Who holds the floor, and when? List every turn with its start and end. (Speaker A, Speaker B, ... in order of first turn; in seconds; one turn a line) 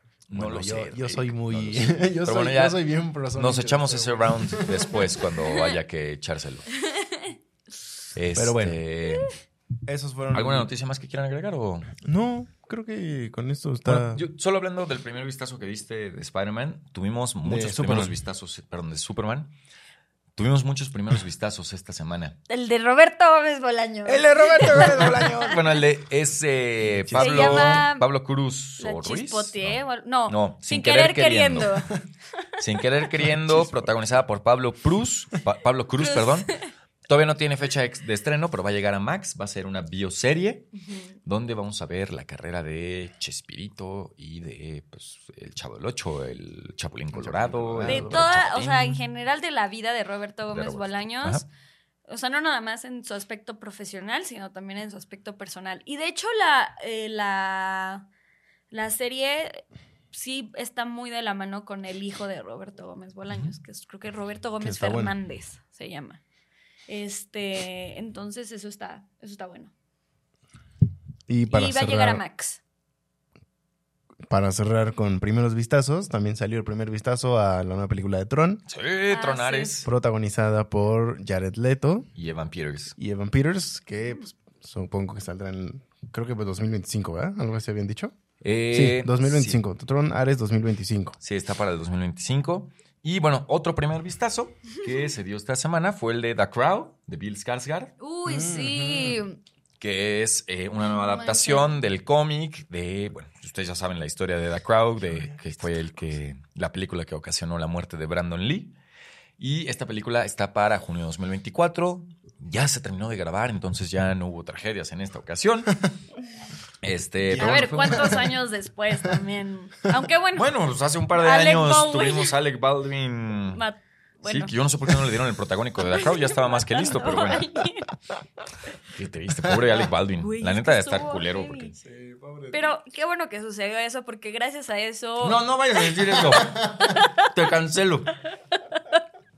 Speaker A: 0.3-2.8
Speaker B: 0.3-5.1
Speaker A: 3.3-6.7
Speaker C: 5.5-5.8
Speaker C: 6.8-7.4
Speaker A: 8.2-9.3
Speaker B: 8.3-8.8
Speaker B: 9.9-10.7
Speaker A: 10.3-11.9
Speaker B: 12.0-14.2
Speaker A: 13.9-19.5
Speaker B: 17.4-18.2
Speaker A: 20.4-22.4
Speaker C: 22.5-25.6
Speaker A: 24.1-31.8
Speaker B: 24.6-25.6
Speaker B: 26.8-27.9
Speaker C: 27.2-28.1
Speaker C: 28.8-32.0
Speaker A: 32.6-40.7
Speaker B: 33.5-33.9
Speaker C: 36.0-36.7
Speaker C: 40.8-41.1
Speaker A: 41.2-49.0
Speaker B: 47.1-48.3
Speaker C: 47.9-51.5
Speaker A: 50.5-51.4
Speaker C: 52.1-58.1
Speaker C: 58.7-66.2
Speaker B: 64.6-65.2
Speaker C: 66.9-69.7
Speaker B: 71.3-72.2
Speaker C: 71.5-72.6
Speaker B: 74.3-78.6
Speaker A: 78.7-79.9
Speaker C: 79.1-79.8
Speaker B: 79.8-82.1
Speaker A: 82.2-83.0
Speaker B: 83.0-88.2
Speaker A: 88.4-89.6
Speaker B: 88.7-91.2
Speaker A: 91.2-97.9
Speaker C: 98.0-99.4
Speaker B: 98.2-99.2
Speaker A: 99.8-108.8
Speaker C: 100.8-101.8
Speaker B: 105.1-105.4
Speaker A: 109.4-115.8
Speaker A: 116.8-118.3
Speaker B: 117.3-118.2
Speaker C: 117.3-120.5
Speaker A: 120.4-123.6
Speaker C: 121.1-122.3
Speaker C: 123.5-124.5
Speaker A: 124.2-127.5
Speaker C: 125.8-127.9
Speaker A: 128.9-131.8
Speaker C: 130.2-131.7
Speaker B: 131.8-132.8
Speaker C: 132.5-137.3
Speaker A: 135.2-138.1
Speaker C: 138.5-139.0